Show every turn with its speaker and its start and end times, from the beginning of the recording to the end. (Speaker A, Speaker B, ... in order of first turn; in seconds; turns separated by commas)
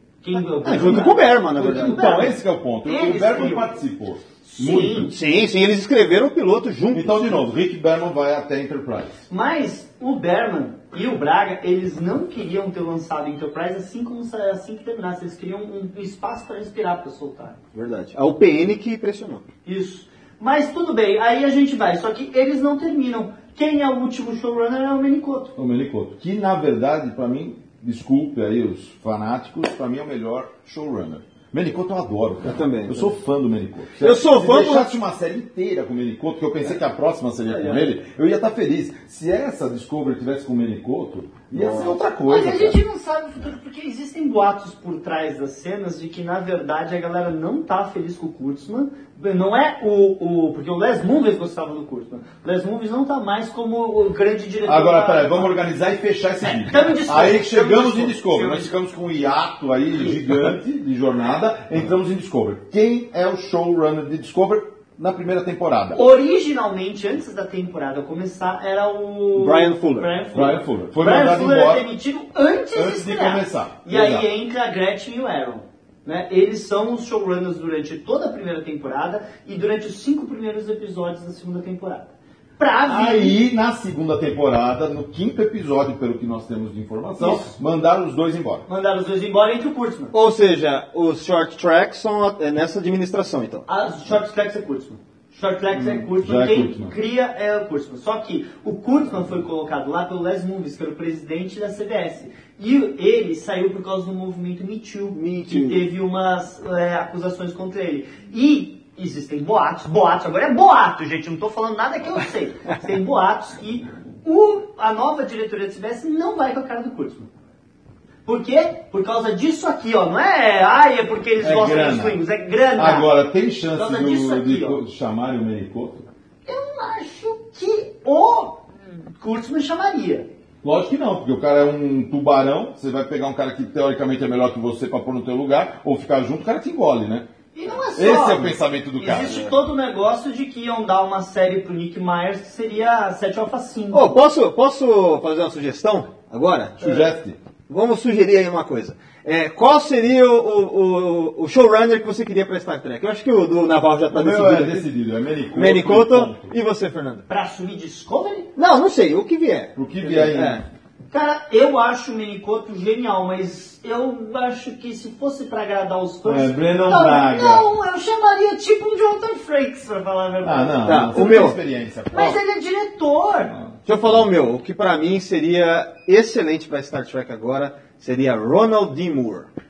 Speaker A: 0.2-3.8, Speaker B: 0.6-2.3, Speaker C: 1.6-5.1, Speaker A: 4.5-5.1, Speaker B: 5.0-7.5, Speaker C: 6.9-9.2, Speaker A: 9.3-17.6, Speaker B: 17.7-19.4, Speaker A: 19.6-25.6, Speaker C: 25.6-42.8, Speaker B: 32.4-33.2, Speaker B: 34.0-34.9, Speaker A: 37.5-37.9, Speaker B: 41.5-42.0, Speaker A: 42.3-55.5, Speaker C: 54.6-66.0, Speaker A: 56.4-58.7, Speaker A: 65.9-83.4, Speaker B: 69.3-70.2, Speaker C: 70.3-71.9, Speaker C: 72.8-74.3, Speaker C: 82.9-88.7, Speaker A: 87.2-87.5, Speaker A: 88.7-90.1, Speaker B: 90.1-93.7, Speaker A: 93.7-117.3, Speaker C: 95.7-96.9, Speaker B: 105.1-105.8, Speaker A: 118.3-123.1, Speaker C: 121.4-122.2, Speaker C: 122.8-126.1, Speaker A: 123.7-124.8, Speaker A: 126.5-130.3, Speaker C: 130.6-137.3, Speaker A: 137.6-144.2, Speaker C: 137.9-139.4, Speaker B: 139.2-139.6, Speaker B: 143.9-147.1, Speaker C: 146.8-147.4, Speaker B: 147.7-154.8, Speaker C: 154.1-156.5, Speaker B: 155.5-157.2, Speaker A: 157.3-158.5, Speaker B: 158.6-160.7, Speaker C: 159.8-160.6, Speaker A: 161.1-171.5, Speaker C: 166.2-167.7, Speaker C: 170.4-172.4, Speaker B: 170.8-171.6, Speaker A: 172.1-173.5, Speaker C: 173.5-174.2, Speaker B: 173.9-179.5